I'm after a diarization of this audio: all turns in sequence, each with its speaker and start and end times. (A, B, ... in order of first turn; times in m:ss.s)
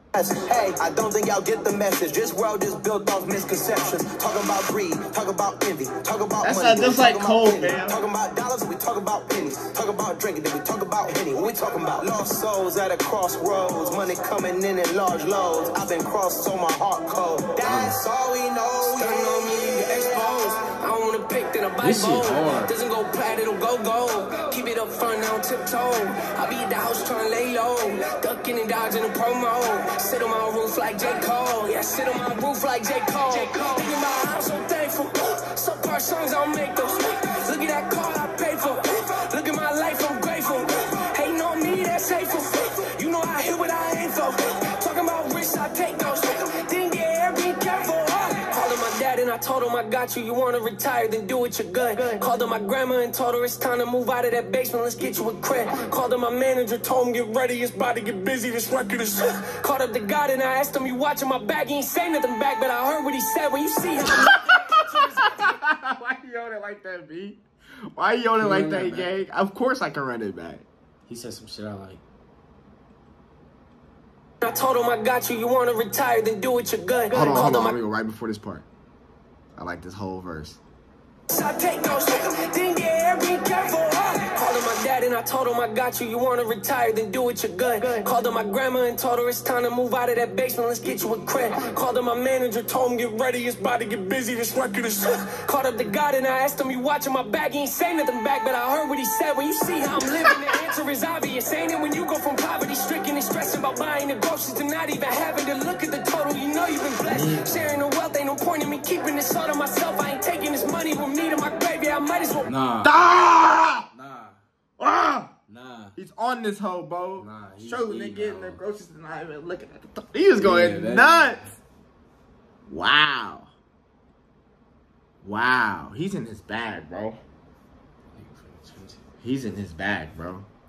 0:00.1-0:19.3 A
0:06.4-0:08.0 B
0:17.7-0:18.0 C
0:18.8-1:05.5 D
0:21.8-0:22.7 C
1:04.2-1:10.7 B
1:08.4-1:09.1 C
1:11.1-1:12.0 C
1:14.4-1:17.8 D
1:17.1-1:18.7 B
1:19.6-1:20.6 B
1:21.3-1:52.5 D
1:47.1-1:47.8 C
1:52.4-1:53.0 C
1:52.8-1:53.9 B
1:53.9-1:54.4 C
1:54.8-1:55.4 B
1:55.5-1:56.0 C
1:56.0-2:01.4 B
1:57.2-1:58.6 C
2:00.4-2:01.5 C
2:02.7-2:03.5 B
2:05.2-2:07.2 B
2:08.2-2:09.0 C
2:09.2-2:10.5 B